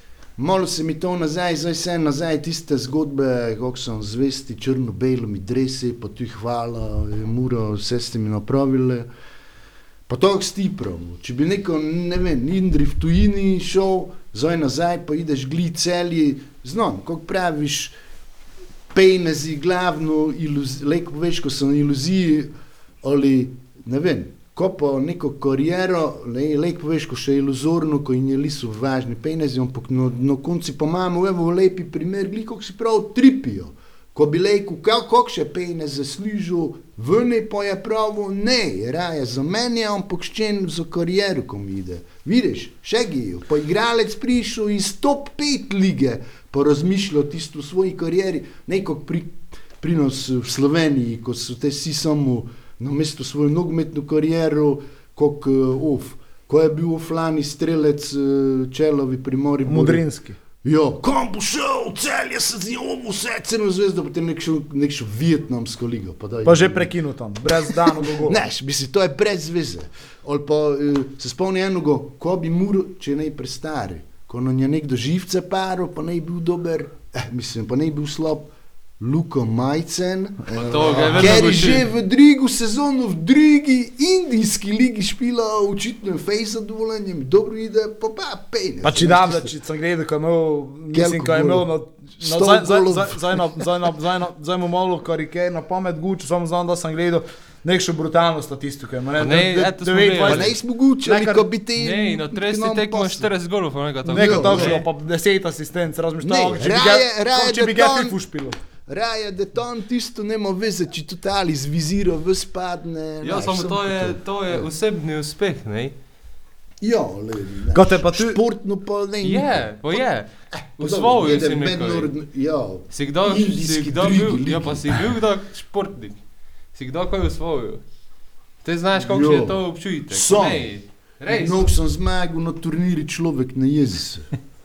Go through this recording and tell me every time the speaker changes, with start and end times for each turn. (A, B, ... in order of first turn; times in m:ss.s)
0:00.4-0:09.1 A
0:10.1-0:17.9 A
0:18.9-1:00.0 A
0:59.7-1:00.4 B
1:00.6-1:06.9 A
1:06.4-1:08.4 B
1:07.4-1:29.5 A
1:20.5-1:21.9 C
1:28.8-1:41.4 B
1:30.9-1:33.6 A
1:39.2-1:40.5 C
1:40.2-1:43.3 A
1:41.8-1:44.8 C
1:44.1-1:44.8 A
1:44.1-1:48.6 B
1:46.2-1:48.2 A
1:48.9-1:54.7 A
1:53.2-1:55.9 C
1:56.8-2:00.0 A
1:57.7-1:58.4 B
1:59.2-2:02.1 C
2:00.8-2:04.9 A
2:02.9-2:07.8 C
2:08.6-2:11.7 C
2:08.9-2:14.3 A